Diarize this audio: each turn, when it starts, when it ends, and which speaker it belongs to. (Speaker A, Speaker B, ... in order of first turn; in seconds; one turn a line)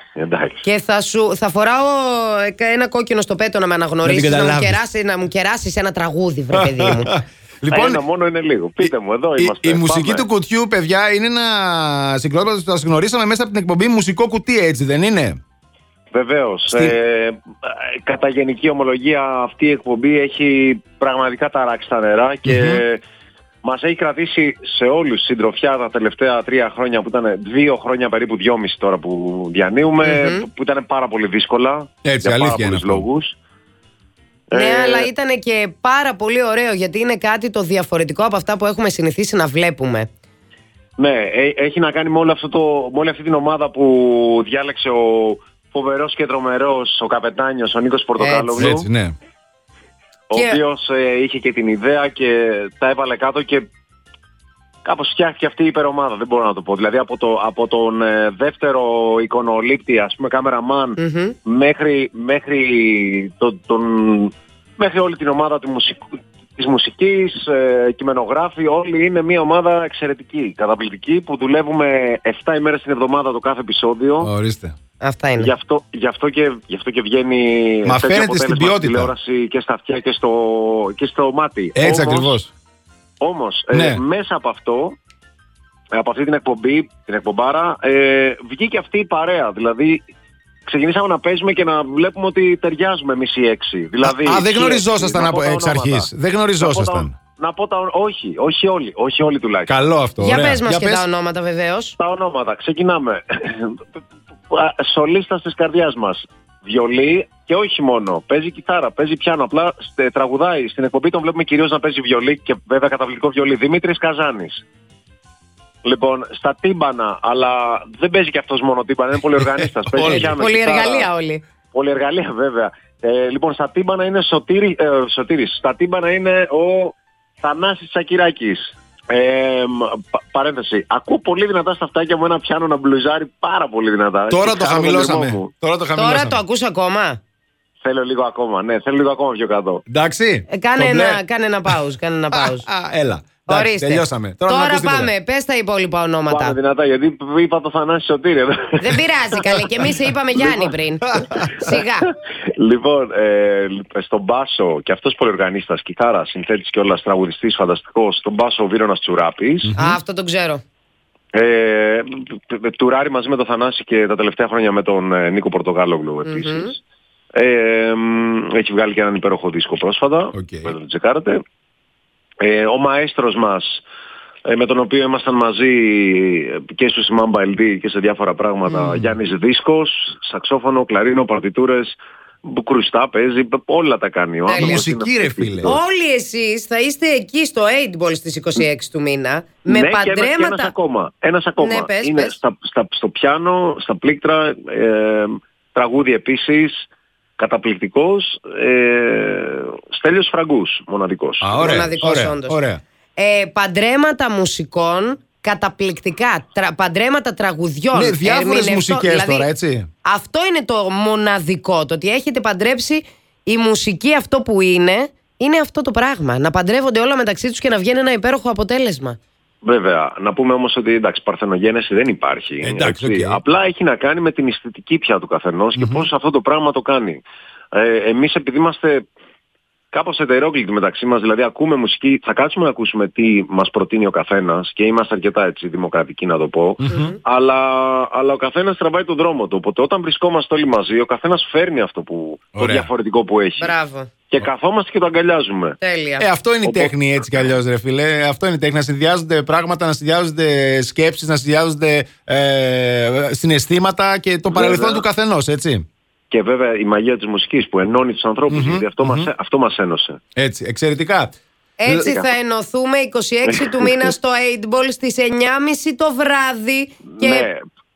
Speaker A: 0.2-0.7
Speaker B: 0.6-7.1
Speaker C: 4.0-4.8
Speaker C: 6.6-8.0
Speaker A: 7.7-10.2
Speaker C: 8.8-15.4
Speaker A: 16.1-23.0
Speaker C: 16.7-17.0
Speaker C: 22.5-22.8
Speaker A: 23.6-33.4
Speaker B: 30.0-30.5
Speaker C: 32.0-33.1
Speaker A: 34.5-35.1
Speaker B: 34.5-40.1
Speaker A: 41.0-48.9
Speaker B: 48.2-48.5
Speaker C: 48.6-49.1
Speaker A: 50.3-53.7
Speaker B: 50.3-50.6
Speaker A: 54.9-74.3
Speaker B: 61.0-61.4
Speaker C: 74.2-74.8
Speaker B: 75.0-75.5
Speaker A: 75.4-82.4
Speaker C: 77.8-79.1
Speaker C: 81.8-82.5
Speaker A: 83.2-85.0
Speaker C: 83.7-84.0
Speaker A: 86.0-90.0
Speaker A: 90.7-96.1
Speaker C: 94.0-97.1
Speaker A: 96.6-99.8
Speaker C: 99.7-101.0
Speaker B: 100.2-102.0
Speaker A: 102.0-103.8
Speaker A: 104.5-114.6
Speaker A: 115.8-121.1
Speaker C: 119.9-120.3
Speaker B: 120.1-121.4
Speaker A: 121.7-135.5
Speaker C: 134.3-136.4
Speaker B: 136.0-137.2
Speaker A: 137.8-139.8
Speaker C: 139.9-141.2
Speaker B: 140.5-142.7
Speaker C: 142.3-145.1
Speaker B: 143.5-146.6
Speaker A: 146.3-149.6
Speaker B: 148.8-152.1
Speaker C: 151.2-151.5
Speaker A: 152.5-159.7
Speaker C: 159.7-160.0
Speaker B: 159.8-160.6
Speaker A: 161.3-166.8
Speaker B: 166.3-166.8
Speaker A: 167.3-171.4
Speaker C: 170.3-170.7
Speaker A: 172.4-173.8
Speaker A: 174.5-185.8
Speaker B: 184.5-184.8
Speaker C: 184.6-185.8
Speaker B: 185.6-190.7
Speaker A: 189.7-201.6
Speaker B: 191.6-192.4
Speaker C: 201.4-202.8
Speaker B: 201.6-202.6
Speaker B: 203.2-209.5
Speaker C: 207.9-209.9
Speaker B: 210.1-219.2
Speaker A: 219.6-229.1
Speaker C: 222.6-223.4
Speaker C: 225.8-226.1
Speaker A: 229.9-243.7
Speaker C: 236.8-237.2
Speaker C: 242.6-242.9
Speaker B: 243.6-244.1
Speaker A: 244.3-245.8
Speaker B: 245.8-246.2
Speaker C: 246.2-255.8
Speaker A: 246.6-246.9
Speaker A: 254.5-255.1
Speaker A: 256.3-260.2
Speaker C: 258.5-259.3
Speaker C: 260.4-261.4
Speaker B: 261.8-267.5
Speaker C: 261.9-262.1
Speaker A: 263.5-264.1
Speaker A: 267.1-267.6